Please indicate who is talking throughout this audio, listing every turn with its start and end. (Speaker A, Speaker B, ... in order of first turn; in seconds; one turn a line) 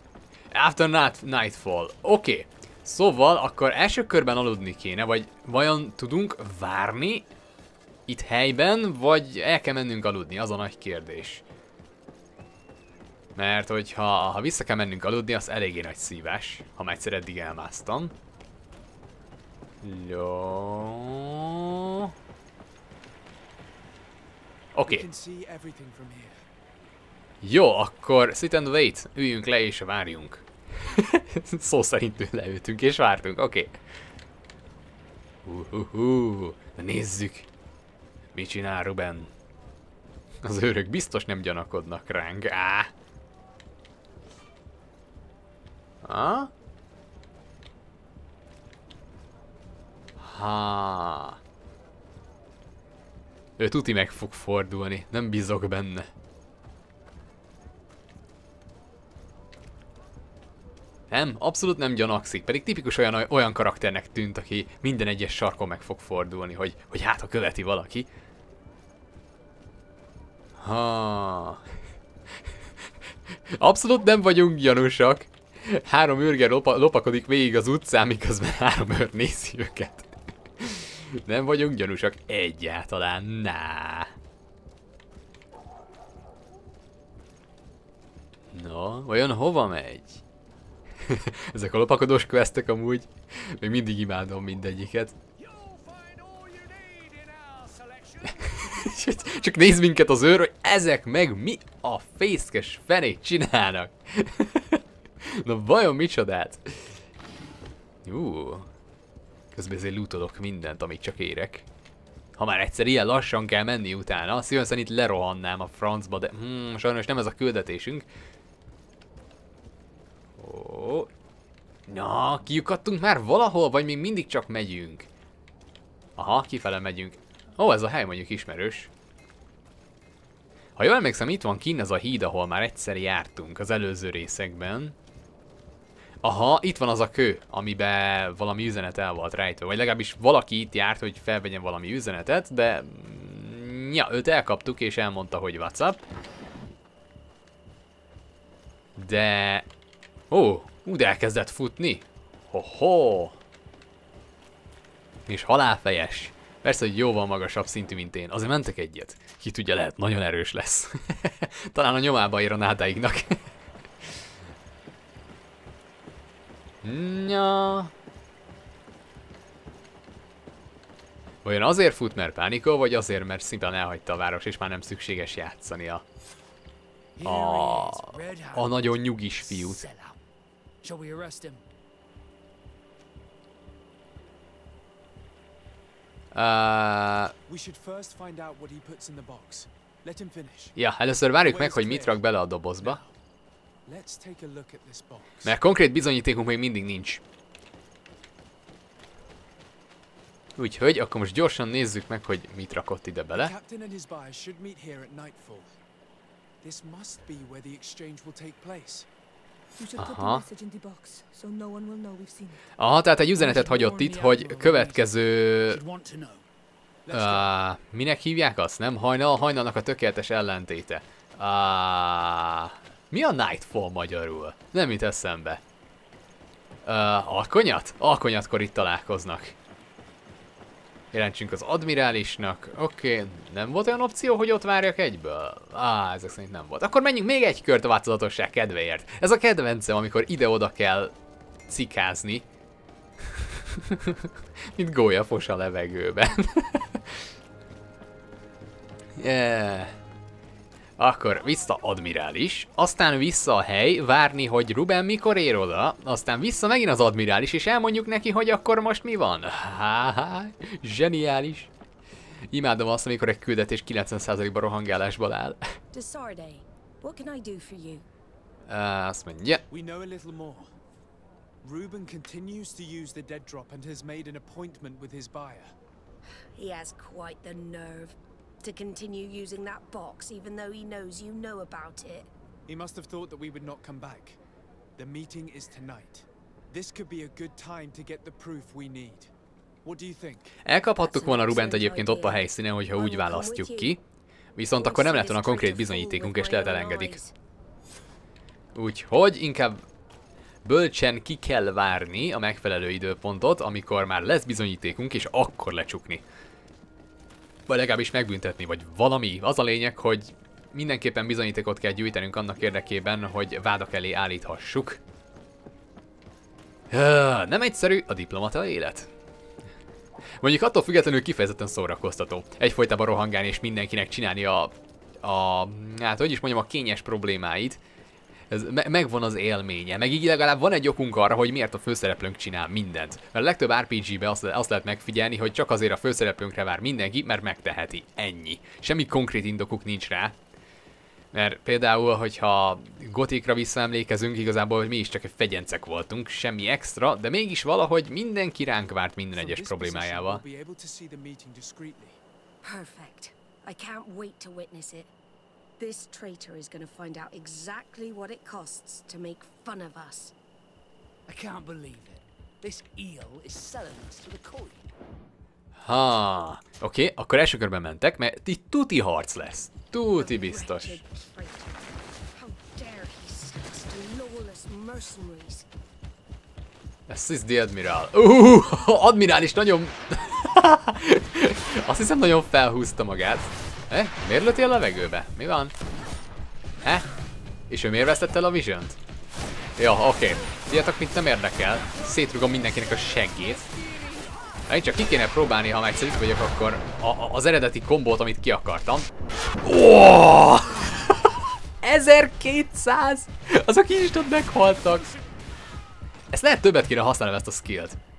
Speaker A: 0.5-7.3
Speaker A: 8.1-11.4
Speaker A: 13.3-18.1
Speaker A: 19.8-22.1
Speaker A: 24.7-25.1
Speaker B: 24.8-26.4
Speaker A: 27.4-33.7
Speaker A: 35.4-37.5
Speaker A: 38.3-39.3
Speaker A: 40.4-42.9
Speaker A: 46.0-46.5
Speaker A: 50.2-51.4
Speaker A: 53.6-56.1
Speaker A: 61.1-68.1
Speaker A: 70.6-71.6
Speaker A: 73.5-84.1
Speaker A: 88.5-90.2
Speaker A: 91.0-95.2
Speaker C: 95.4-99.5
Speaker A: 98.4-107.0
Speaker A: 108.0-108.7
Speaker A: 109.5-111.7
Speaker A: 112.4-118.0
Speaker A: 120.4-121.1
Speaker A: 121.9-125.1
Speaker A: 126.2-128.9
Speaker A: 130.8-134.9
Speaker A: 136.2-146.0
Speaker A: 148.9-149.7
Speaker A: 150.3-153.4
Speaker A: 155.3-163.4
Speaker A: 166.8-167.9
Speaker A: 171.4-176.0
Speaker C: 177.2-180.2
Speaker A: 177.2-179.8
Speaker C: 180.8-181.6
Speaker A: 186.3-187.3
Speaker B: 187.5-190.7
Speaker A: 190.8-193.0
Speaker B: 191.4-192.3
Speaker B: 192.8-193.1
Speaker B: 193.8-195.5
Speaker A: 195.4-197.2
Speaker A: 200.6-203.5
Speaker B: 203.3-205.7
Speaker B: 206.6-209.1
Speaker D: 209.8-212.6
Speaker A: 209.9-210.4
Speaker A: 212.8-215.8
Speaker C: 213.3-215.1
Speaker C: 215.7-216.4
Speaker B: 217.1-217.5
Speaker A: 217.1-225.6
Speaker A: 226.8-229.5
Speaker A: 231.1-241.1
Speaker A: 241.7-242.4
Speaker A: 243.3-247.2
Speaker A: 249.2-249.9
Speaker A: 251.0-261.7
Speaker A: 262.5-265.6
Speaker E: 265.9-268.1
Speaker A: 268.7-269.6
Speaker B: 269.7-270.7
Speaker B: 271.6-275.7
Speaker E: 276.5-282.3
Speaker B: 282.7-284.4
Speaker B: 285.0-289.3
Speaker B: 289.8-290.6
Speaker A: 290.6-294.0
Speaker E: 291.0-293.9
Speaker A: 294.6-297.2
Speaker E: 294.8-297.3
Speaker A: 298.7-299.8
Speaker A: 300.6-306.2
Speaker A: 307.7-315.0
Speaker A: 316.9-319.1
Speaker A: 320.4-327.8
Speaker A: 328.5-340.4
Speaker A: 341.3-350.4
Speaker B: 349.3-352.2
Speaker E: 352.6-355.1
Speaker E: 355.8-360.3
Speaker C: 361.3-364.9
Speaker A: 365.8-371.0
Speaker E: 370.1-375.7
Speaker A: 377.1-385.7
Speaker A: 387.7-389.0
Speaker A: 389.8-393.7
Speaker A: 394.7-399.1
Speaker A: 399.6-405.1
Speaker A: 406.3-408.0